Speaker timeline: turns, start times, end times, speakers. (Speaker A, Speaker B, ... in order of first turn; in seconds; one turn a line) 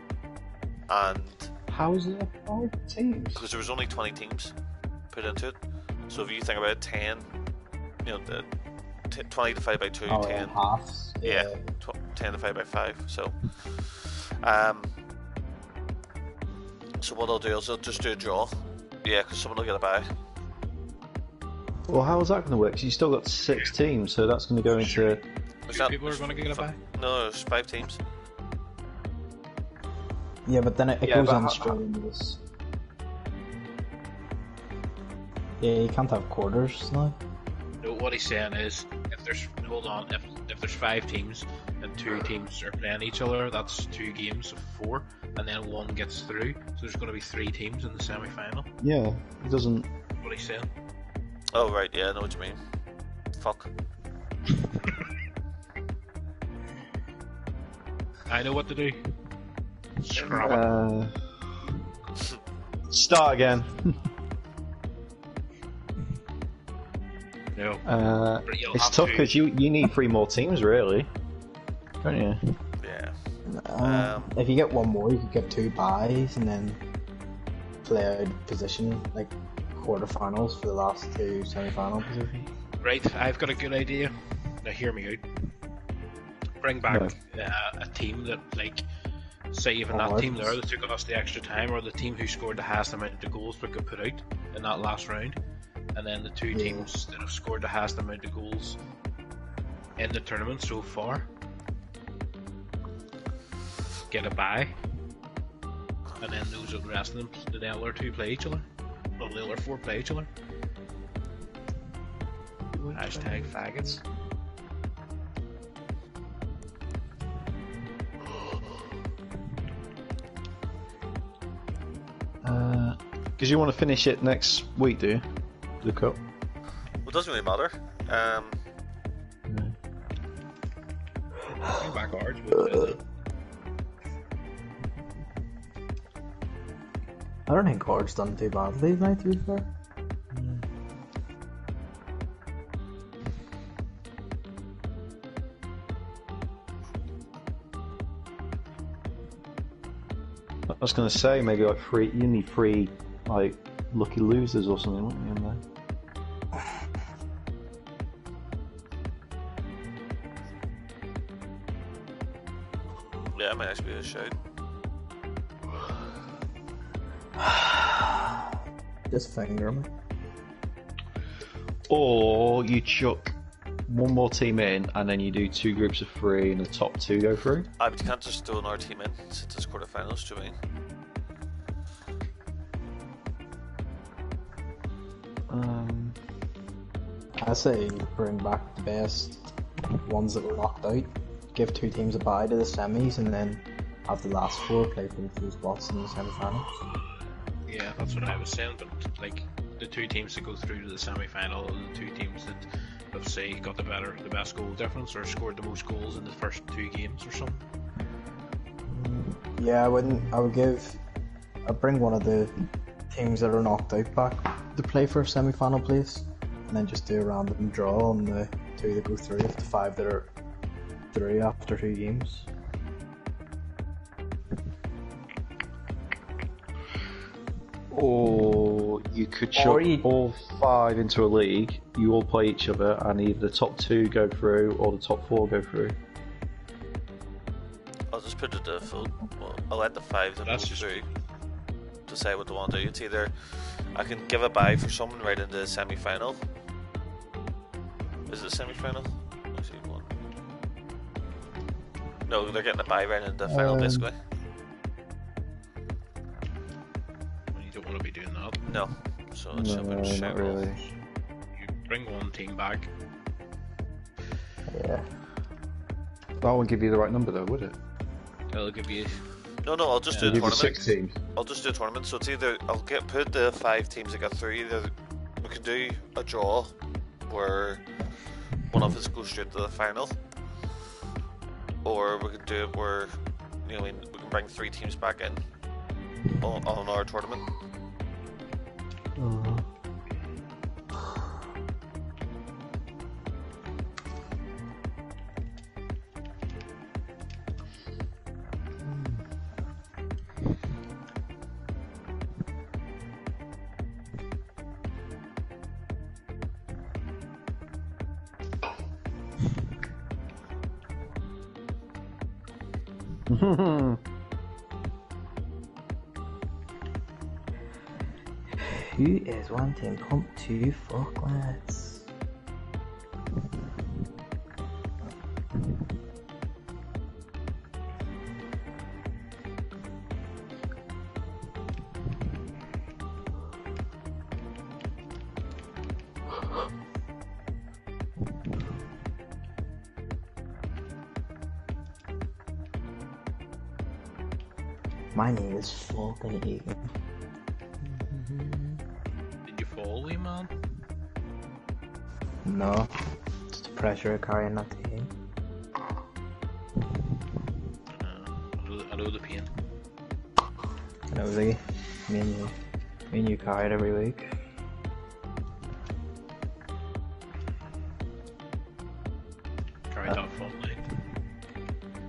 Speaker A: 0.9-1.5
Speaker B: 1.7-3.4
Speaker A: 3.4-4.5
Speaker A: 5.1-5.6
Speaker A: 6.1-7.3
Speaker A: 8.0-8.5
Speaker A: 9.1-10.5
Speaker B: 10.1-11.6
Speaker A: 11.2-14.9
Speaker A: 17.0-20.1
Speaker C: 21.9-25.2
Speaker D: 24.7-26.8
Speaker A: 25.7-28.0
Speaker B: 30.4-32.4
Speaker C: 31.1-31.8
Speaker B: 35.6-37.2
Speaker D: 37.8-48.7
Speaker C: 48.8-49.9
Speaker D: 50.2-50.7
Speaker A: 51.5-52.6
Speaker A: 53.4-53.7
Speaker D: 58.3-59.0
Speaker D: 60.0-60.6
Speaker C: 60.1-61.1
Speaker C: 62.9-63.8
Speaker D: 67.5-67.8
Speaker C: 67.8-71.1
Speaker D: 68.5-69.4
Speaker C: 72.0-72.5
Speaker A: 72.8-73.2
Speaker B: 73.5-76.8
Speaker A: 73.8-74.3
Speaker B: 77.8-82.4
Speaker D: 82.8-85.2
Speaker D: 86.6-88.8
Speaker C: 86.9-87.2
Speaker D: 89.5-95.4
Speaker B: 89.9-90.5
Speaker D: 95.9-98.8
Speaker B: 96.5-96.9
Speaker D: 100.0-101.3
Speaker D: 104.1-104.8
Speaker D: 106.2-108.7
Speaker D: 109.2-110.3
Speaker D: 112.9-114.0
Speaker C: 122.4-125.3
Speaker C: 125.8-126.2
Speaker A: 127.0-128.6
Speaker D: 131.7-133.0
Speaker B: 137.5-139.7
Speaker C: 150.7-155.6
Speaker A: 163.3-164.4
Speaker B: 167.4-168.2
Speaker B: 169.1-169.9
Speaker C: 171.9-173.3
Speaker C: 173.9-177.7
Speaker A: 177.8-180.6
Speaker C: 185.5-186.2
Speaker B: 187.4-189.5
Speaker B: 190.0-196.7
Speaker D: 197.7-207.6
Speaker B: 208.9-211.0
Speaker B: 211.7-220.3
Speaker B: 221.1-222.5
Speaker C: 227.9-236.0
Speaker B: 229.5-230.1
Speaker A: 238.1-241.1
Speaker D: 240.4-241.1
Speaker A: 242.1-246.4
Speaker A: 248.3-250.1
Speaker A: 252.3-254.2
Speaker C: 253.5-254.0
Speaker D: 257.5-258.6
Speaker A: 258.7-260.7
Speaker C: 259.5-260.8
Speaker D: 261.5-262.9
Speaker C: 264.7-265.1
Speaker C: 266.4-267.8
Speaker D: 268.5-269.2
Speaker A: 269.6-277.9
Speaker D: 270.1-270.6
Speaker C: 270.2-271.2
Speaker A: 278.6-280.2
Speaker A: 281.8-285.4
Speaker A: 286.4-287.4
Speaker C: 289.2-289.6
Speaker B: 318.6-322.1
Speaker B: 345.1-346.9
Speaker B: 347.8-348.8
Speaker D: 349.4-350.5
Speaker B: 352.4-352.9
Speaker B: 353.5-355.1
Speaker D: 357.9-359.6
Speaker B: 361.1-362.6
Speaker B: 363.1-364.3
Speaker D: 369.9-370.8